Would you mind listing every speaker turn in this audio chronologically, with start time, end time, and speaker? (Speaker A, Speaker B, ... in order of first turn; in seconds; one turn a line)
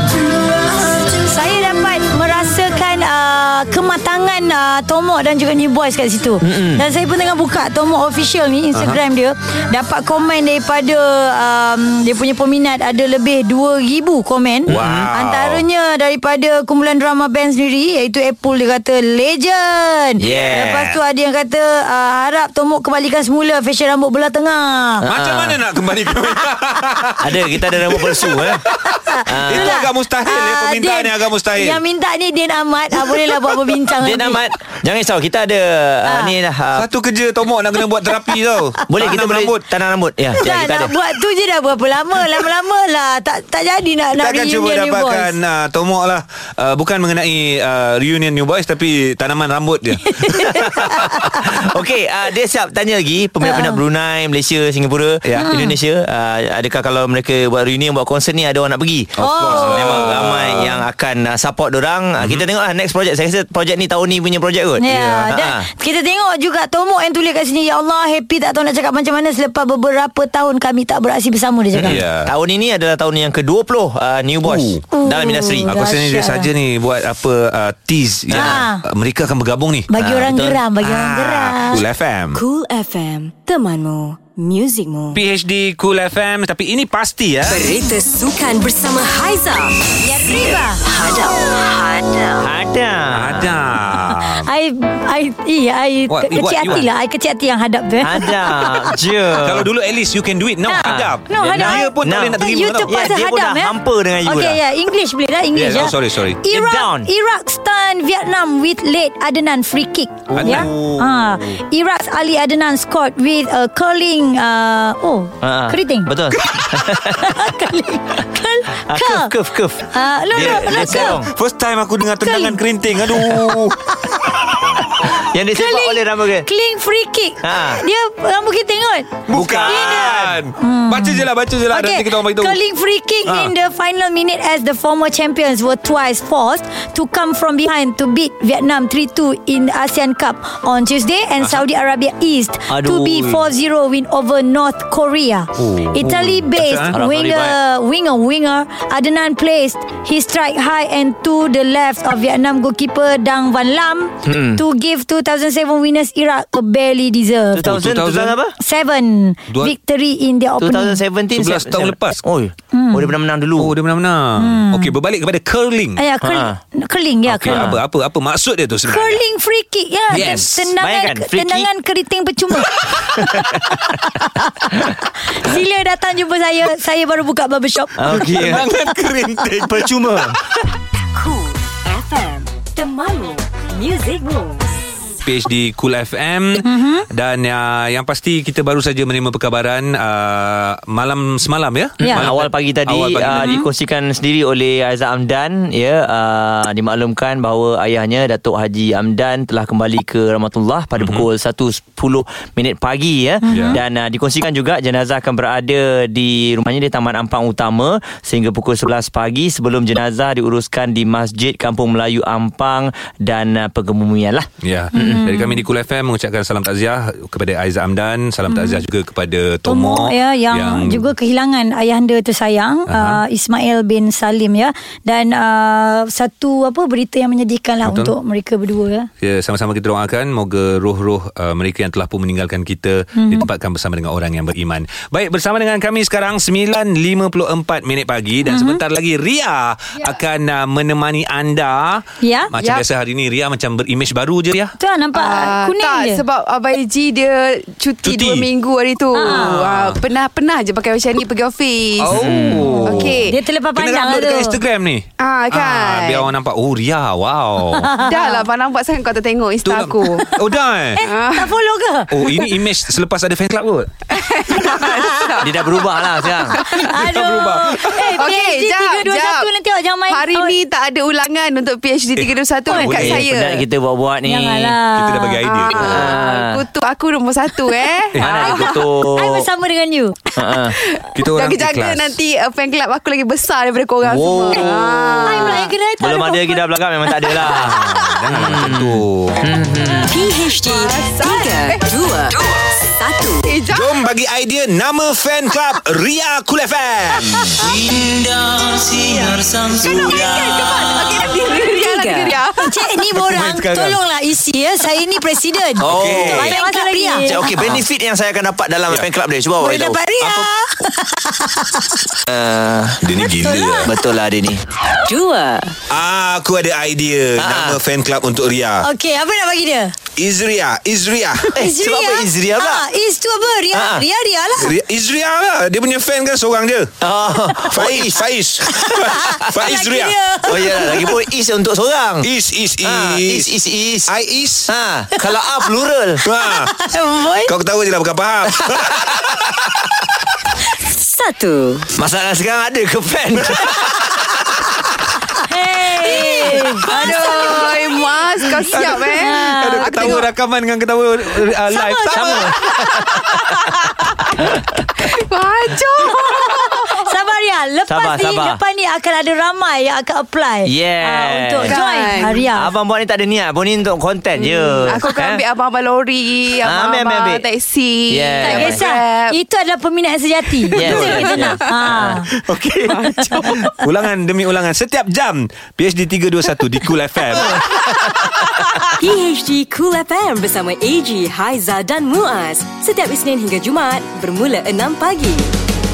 Speaker A: 0.9-25.1
Speaker B: 6.4-6.8
Speaker B: 14.7-15.1
Speaker C: 14.7-15.6
Speaker B: 20.2-20.9
Speaker C: 20.2-20.9
Speaker C: 25.0-31.8
Speaker B: 25.1-25.6
Speaker B: 27.2-28.6
Speaker A: 28.9-34.4
Speaker B: 29.3-29.8
Speaker B: 34.0-36.9
Speaker C: 36.8-39.6
Speaker B: 38.9-40.9
Speaker A: 40.4-45.4
Speaker C: 44.2-51.5
Speaker A: 50.2-51.4
Speaker B: 50.4-65.7
Speaker A: 53.4-53.8
Speaker C: 55.2-55.6
Speaker A: 55.4-55.8
Speaker C: 59.2-60.8
Speaker A: 59.2-60.2
Speaker A: 64.8-72.0
Speaker B: 71.8-75.7
Speaker C: 71.8-72.3
Speaker C: 74.5-74.8
Speaker A: 74.9-76.5
Speaker C: 75.7-82.4
Speaker A: 78.3-78.8
Speaker B: 78.3-78.6
Speaker A: 79.9-81.8
Speaker B: 80.1-80.6
Speaker D: 82.3-85.2
Speaker C: 85.1-87.7
Speaker D: 87.5-89.8
Speaker A: 90.0-90.8
Speaker D: 90.5-92.5
Speaker B: 92.4-93.6
Speaker C: 93.1-94.5
Speaker A: 94.1-99.0
Speaker C: 96.1-96.9
Speaker B: 98.0-99.7
Speaker C: 99.4-103.0
Speaker A: 100.7-119.3
Speaker B: 100.8-104.6
Speaker C: 105.5-106.4
Speaker B: 106.5-107.1
Speaker C: 110.3-111.2
Speaker B: 110.4-110.8
Speaker B: 115.4-117.5
Speaker B: 118.8-121.3
Speaker A: 119.9-121.2
Speaker C: 120.4-123.9
Speaker A: 122.2-122.6
Speaker B: 125.0-126.5
Speaker A: 125.5-157.7
Speaker B: 127.4-127.8
Speaker C: 129.3-132.6
Speaker B: 129.3-130.4
Speaker C: 133.3-133.5
Speaker B: 142.7-143.5
Speaker C: 145.6-146.9
Speaker B: 146.9-147.6
Speaker B: 154.3-154.6
Speaker B: 157.6-158.6
Speaker C: 157.6-158.4
Speaker A: 158.6-161.0
Speaker B: 160.6-163.7
Speaker C: 161.3-162.2
Speaker A: 162.7-163.2
Speaker C: 163.6-166.0
Speaker A: 164.4-164.9
Speaker A: 166.0-167.7
Speaker B: 166.2-166.6
Speaker C: 167.3-169.2
Speaker B: 167.4-167.8
Speaker A: 168.9-178.3
Speaker C: 170.1-170.7
Speaker B: 170.2-171.7
Speaker B: 173.1-173.8
Speaker B: 178.0-178.7
Speaker C: 178.1-180.7
Speaker B: 179.6-180.4
Speaker D: 181.1-184.8
Speaker C: 185.2-193.6
Speaker A: 186.6-187.1
Speaker A: 192.0-192.3
Speaker B: 192.0-215.2
Speaker A: 193.4-193.7
Speaker C: 201.0-201.3
Speaker A: 203.4-203.8
Speaker C: 203.5-203.8
Speaker C: 214.6-221.1
Speaker A: 214.9-215.6
Speaker A: 218.5-218.8
Speaker A: 219.7-229.1
Speaker C: 222.9-223.2
Speaker C: 227.8-228.1
Speaker C: 229.2-244.7
Speaker A: 233.2-233.5
Speaker A: 238.4-238.8
Speaker A: 242.2-242.5
Speaker E: 242.6-242.8
Speaker A: 244.8-246.2
Speaker E: 245.2-253.4
Speaker C: 248.1-248.5
Speaker A: 249.1-249.6
Speaker C: 249.3-250.0
Speaker C: 252.0-258.0
Speaker A: 252.2-254.6
Speaker E: 255.2-256.3
Speaker A: 257.7-258.5
Speaker E: 258.0-260.3
Speaker C: 259.6-261.0
Speaker A: 261.0-262.1
Speaker E: 261.0-261.6
Speaker C: 262.1-263.9
Speaker E: 264.1-266.9
Speaker A: 264.8-265.3
Speaker B: 265.4-266.6
Speaker A: 266.3-270.6
Speaker C: 266.9-268.1
Speaker E: 268.0-269.5
Speaker E: 270.1-273.7
Speaker C: 272.2-273.2
Speaker A: 272.7-273.0
Speaker B: 272.8-274.8
Speaker A: 274.2-275.4
Speaker C: 274.9-276.2
Speaker E: 275.4-278.8
Speaker B: 275.8-276.6
Speaker C: 278.2-278.5
Speaker B: 278.2-279.5
Speaker A: 278.5-280.2
Speaker B: 280.4-280.8
Speaker E: 280.9-285.7
Speaker C: 281.1-282.2
Speaker B: 284.1-290.1
Speaker A: 285.2-286.7
Speaker E: 287.3-288.3
Speaker C: 287.5-289.5
Speaker D: 290.1-293.5
Speaker E: 290.3-292.4
Speaker E: 293.5-294.1
Speaker C: 293.7-297.6
Speaker F: 297.6-301.0
Speaker E: 299.8-302.8
Speaker D: 301.2-302.4
Speaker A: 302.6-307.5
Speaker C: 303.2-304.0
Speaker C: 305.8-306.6
Speaker B: 305.8-306.6
Speaker D: 306.6-307.5
Speaker B: 307.2-310.0
Speaker C: 307.5-307.9
Speaker A: 309.6-312.0
Speaker B: 312.3-313.0
Speaker C: 313.0-313.9
Speaker A: 313.2-313.9
Speaker B: 313.9-314.6
Speaker D: 315.1-315.8
Speaker C: 315.9-318.9
Speaker B: 317.4-317.8
Speaker A: 318.8-319.9
Speaker C: 320.2-321.5
Speaker A: 321.6-324.7
Speaker B: 321.6-322.9
Speaker B: 323.7-324.1
Speaker C: 324.6-326.9
Speaker B: 327.0-328.3
Speaker C: 327.7-330.2
Speaker A: 328.7-331.2
Speaker B: 330.5-332.3
Speaker C: 332.2-333.5
Speaker B: 332.8-334.1
Speaker C: 334.1-334.7
Speaker B: 334.7-336.2
Speaker C: 336.2-336.7
Speaker A: 336.3-337.5
Speaker C: 337.5-339.7
Speaker B: 338.7-339.3
Speaker D: 340.8-341.9
Speaker B: 342.0-344.0
Speaker A: 345.4-350.3
Speaker D: 346.2-346.6
Speaker E: 346.4-350.2
Speaker C: 348.7-352.7
Speaker A: 351.7-352.4
Speaker B: 352.1-353.7
Speaker E: 352.7-353.9
Speaker E: 355.1-357.0
Speaker A: 356.5-362.7
Speaker B: 357.9-358.6
Speaker B: 360.7-365.4
Speaker E: 361.7-362.5
Speaker E: 364.4-369.4
Speaker B: 366.6-367.4
Speaker B: 368.1-368.8
Speaker A: 368.4-372.3
Speaker E: 370.7-371.6
Speaker B: 370.8-373.4
Speaker C: 370.8-371.3
Speaker E: 372.9-373.7
Speaker A: 373.0-373.6
Speaker C: 373.7-378.1
Speaker B: 377.5-378.4
Speaker D: 379.0-385.5